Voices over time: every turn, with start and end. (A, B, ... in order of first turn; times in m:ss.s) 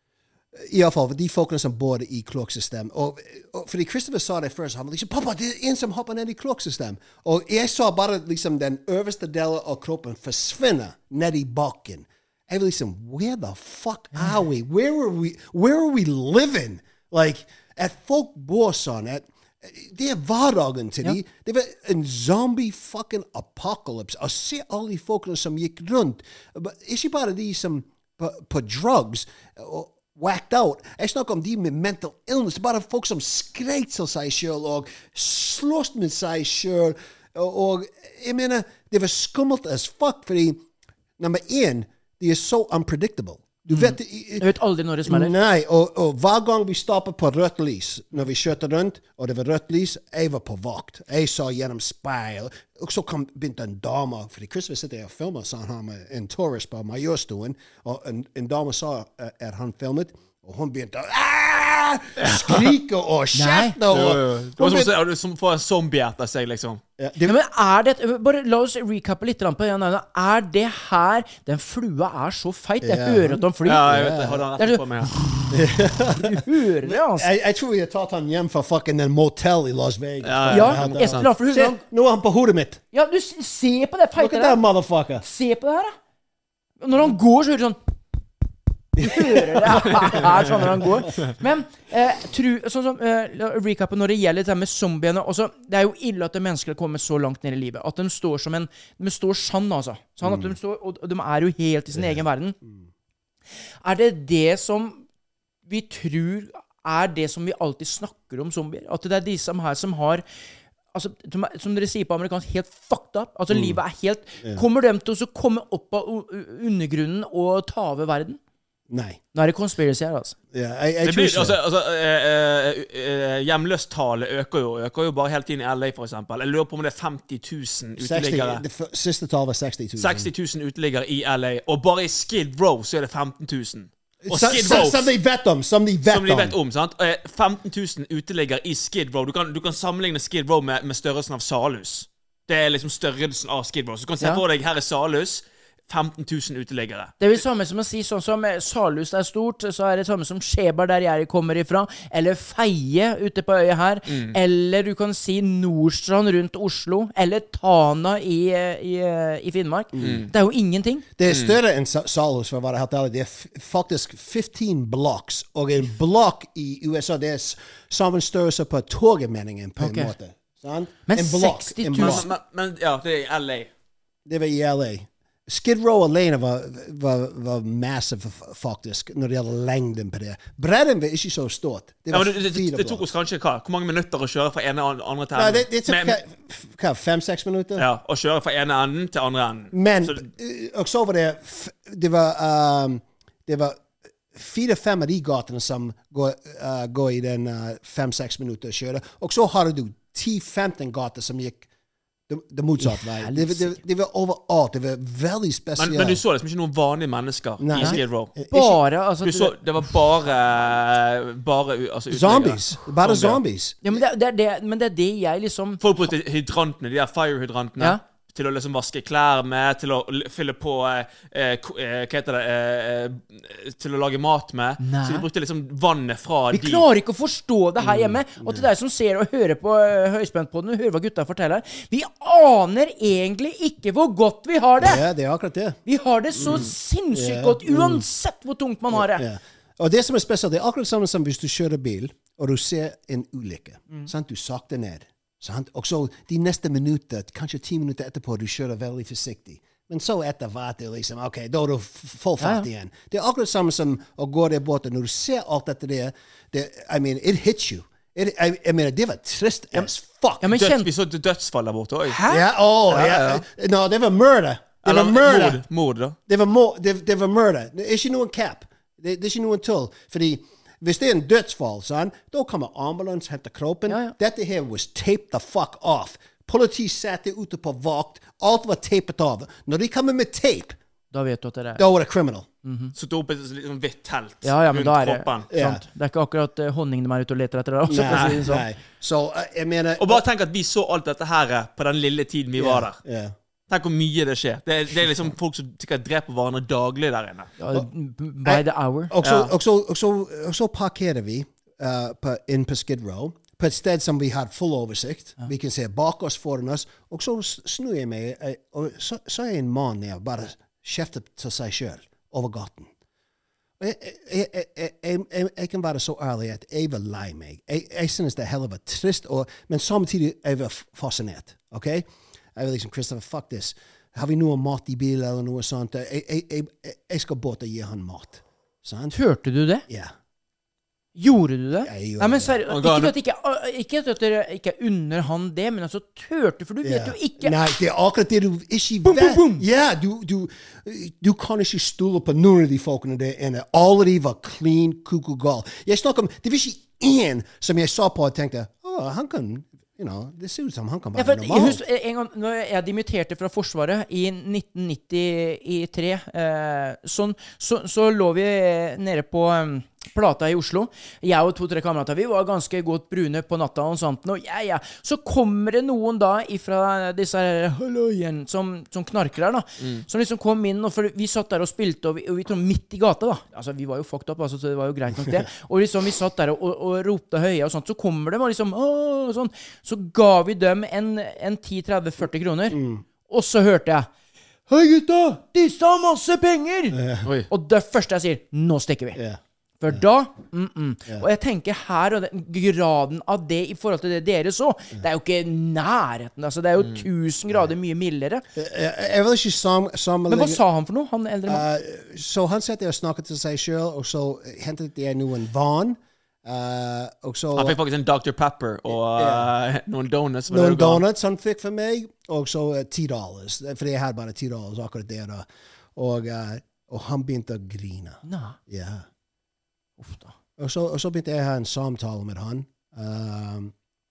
0:00.5-0:40.6 A
0:41.2-0:44.5 A
0:43.7-0:45.3 B
0:45.0-1:04.9 A
1:02.2-1:02.6 C
1:03.3-1:03.8 B
1:03.9-1:06.8 C
1:07.0-1:07.4 A
1:07.2-1:13.9 B
1:12.8-1:14.4 A
1:13.6-1:15.1 C
1:14.6-1:15.4 B
1:15.5-1:22.8 A
1:16.2-1:17.3 B
1:20.2-1:21.3 C
1:20.5-1:21.8 B
1:22.9-1:24.6 B
1:24.2-1:25.2 A
1:25.2-1:25.9 B
1:26.8-1:27.8 B
1:29.0-1:30.2 A
1:29.0-1:42.6 B
1:40.2-1:40.5 A
1:41.9-1:42.8 A
1:43.8-1:45.0 B
1:45.7-1:50.2 B
1:50.9-1:58.4 B
1:53.5-1:53.8 A
1:58.9-1:59.2 A
1:59.3-2:00.3 B
2:00.5-2:01.6 A
2:01.0-2:08.6 C
2:08.0-2:10.3 A
2:10.0-2:15.1 C
2:14.2-2:16.6 A
2:16.1-2:27.1 C
2:27.2-2:41.0 B
2:34.1-2:34.4 C
2:39.9-2:40.2 A
2:40.0-2:40.3 C
2:41.2-2:52.3 A
2:41.3-2:41.6 C
2:49.8-2:50.1 B
2:51.1-2:52.2 B
2:52.0-2:53.7 C
2:54.2-3:03.0 A
3:02.1-3:06.2 C
3:05.3-3:07.9 A
3:07.8-3:10.2 C
3:09.7-3:21.7 A
3:22.3-3:26.2 A
3:22.8-3:23.8 B
3:25.8-3:28.3 C
3:27.6-3:28.8 A
3:27.8-3:29.6 B
3:29.2-3:33.4 C
3:32.1-3:34.0 A
3:33.8-3:35.8 B
3:35.8-3:46.8 C
3:44.8-3:45.2 B
3:46.5-3:55.0 B
3:47.8-3:48.7 A
3:54.8-3:55.8 A
3:55.8-3:59.2 B
3:56.4-3:58.0 A
3:58.9-4:20.5 A
4:12.4-4:12.7 B
4:20.4-4:20.9 B
4:20.5-4:22.2 C
4:22.0-4:22.5 B
4:22.3-4:25.6 A
4:22.9-4:23.4 C
4:24.8-4:26.2 C
4:26.3-4:40.8 A
4:33.9-4:34.1 B
4:41.1-4:41.8 B
4:41.8-4:42.5 A
4:42.6-4:42.9 B
4:43.0-4:45.5 C
4:44.4-4:48.6 B
4:45.5-4:45.8 A
4:47.9-4:50.2 A
4:48.1-4:48.4 C
4:50.0-4:53.0 C
4:52.6-4:53.3 A
4:53.7-4:57.5 C
4:57.6-4:59.1 B
4:58.4-5:12.9 A
4:59.2-4:59.5 C
5:13.8-5:29.2 A
5:29.1-5:29.8 B
5:29.9-5:30.1 A
5:31.2-5:37.6 B
5:31.8-5:32.6 A
5:32.7-5:33.1 C
5:36.8-5:51.8 A
5:39.0-5:39.6 B
5:51.1-6:24.1 B
6:22.7-6:23.0 A
6:24.7-6:27.0 B
6:26.9-6:27.3 A
6:27.5-6:29.2 B
6:29.1-6:29.4 A
6:29.8-6:38.4 B
6:36.8-6:37.0 C
6:38.5-6:40.6 A
6:40.3-6:41.6 B
6:41.5-6:47.8 A
6:47.5-6:51.0 C
6:49.2-6:49.5 A
6:50.5-6:59.0 A
6:58.2-6:58.6 B
7:00.0-7:00.3 B
7:00.6-7:03.7 A